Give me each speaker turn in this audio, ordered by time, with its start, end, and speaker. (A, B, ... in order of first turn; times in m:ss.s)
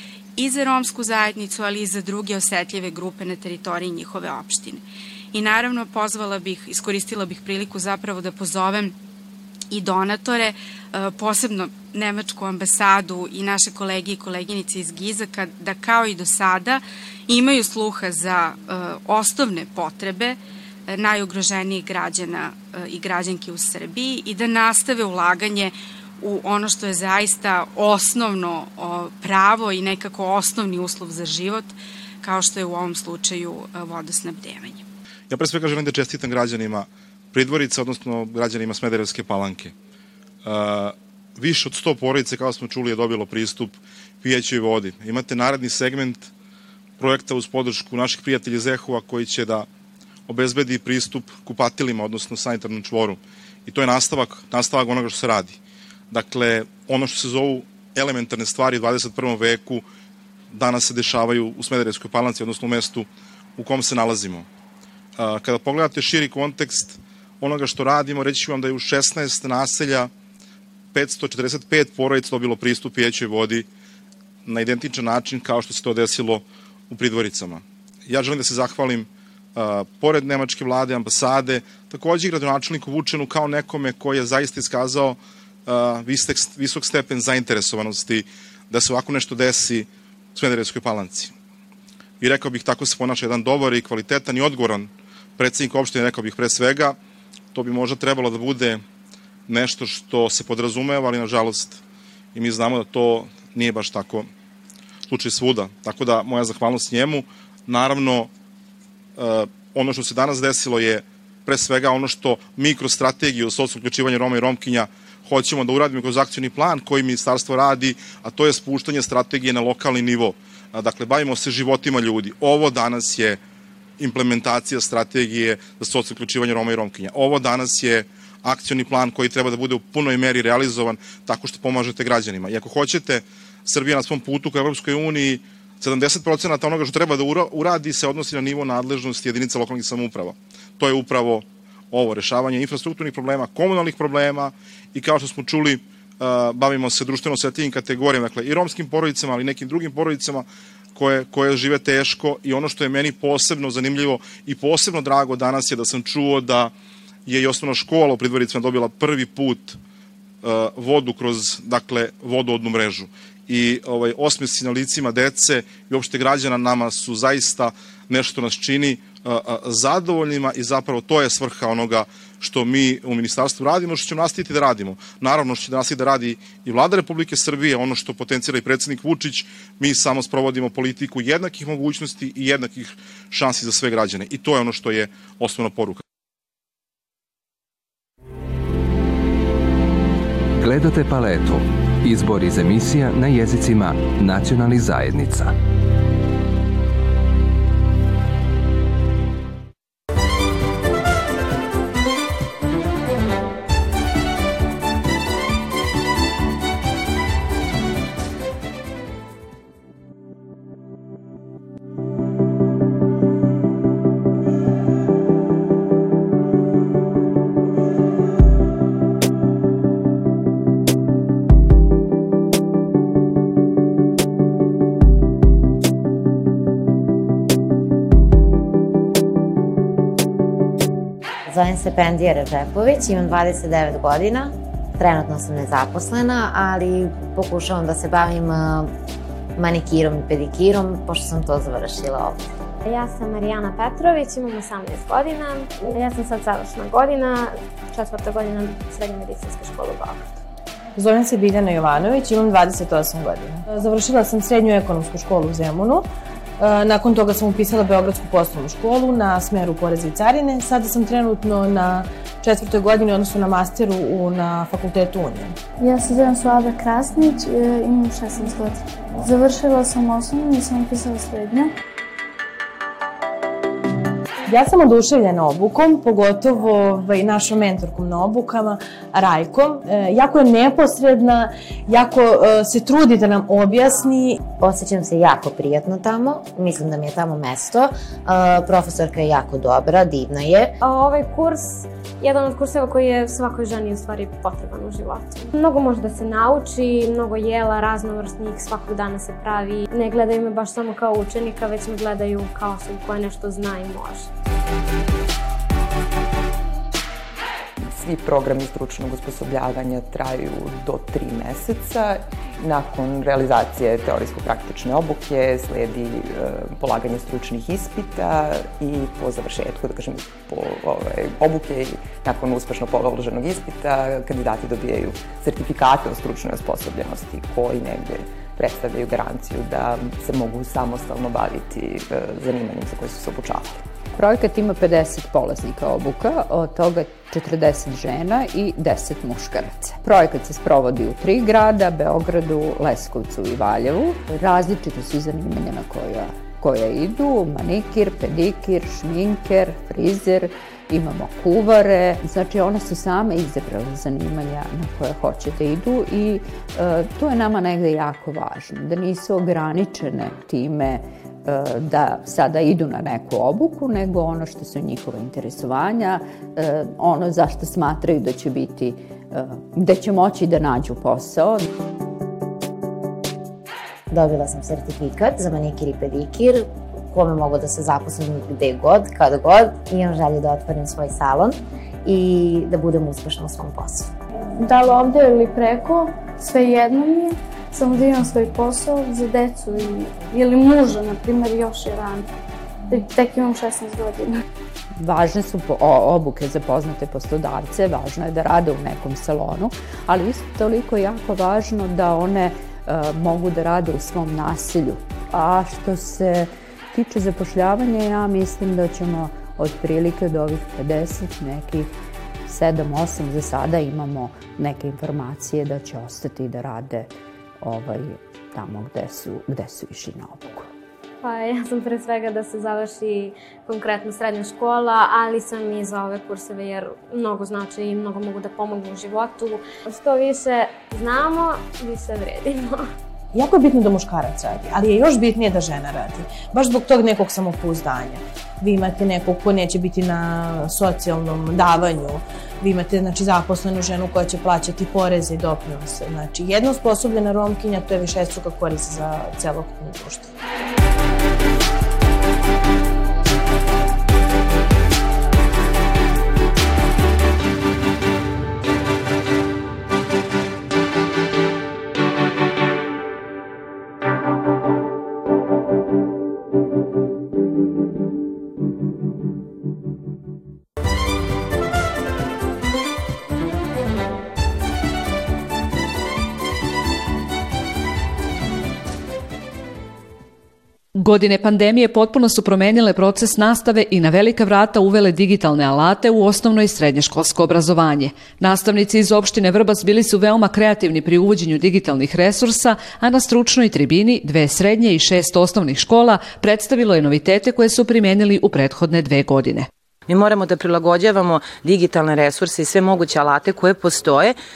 0:00.4-0:04.8 A
0:05.3-0:08.9 A
0:09.7-0:34.8 A
0:35.3-0:39.7 B
0:40.4-0:46.3 B
0:47.0-0:49.7 B
0:50.3-0:55.6 B
0:56.1-0:59.8 B
1:00.5-1:04.5 B
1:05.2-1:10.1 B
1:10.9-1:13.7 B
1:14.4-1:31.3 B
1:32.2-1:37.0 B
1:37.5-1:38.8 B
1:39.5-1:41.8 B
1:42.3-1:44.3 B
1:45.1-1:48.3 B
1:49.2-2:03.4 B
2:04.0-2:36.7 B
2:37.2-2:39.8 B
2:40.4-3:06.0 B
3:10.6-3:15.5 C
3:51.5-3:58.9 D
3:59.6-4:02.4 D
4:02.8-4:10.4 E
4:11.0-4:16.1 F
4:16.6-4:25.6 F
4:25.8-4:31.7 G
4:34.5-4:44.4 F
4:44.6-4:50.7 D
4:50.8-5:04.3 E
5:07.8-5:33.8 H
5:34.1-6:11.6 I
6:14.1-6:24.1 D
6:24.6-6:32.3 G
6:32.9-6:34.3 G
6:35.0-7:00.7 I
7:01.2-7:12.9 E
7:13.3-7:30.3 F
8:00.9-8:19.7 J
8:20.1-8:24.4 K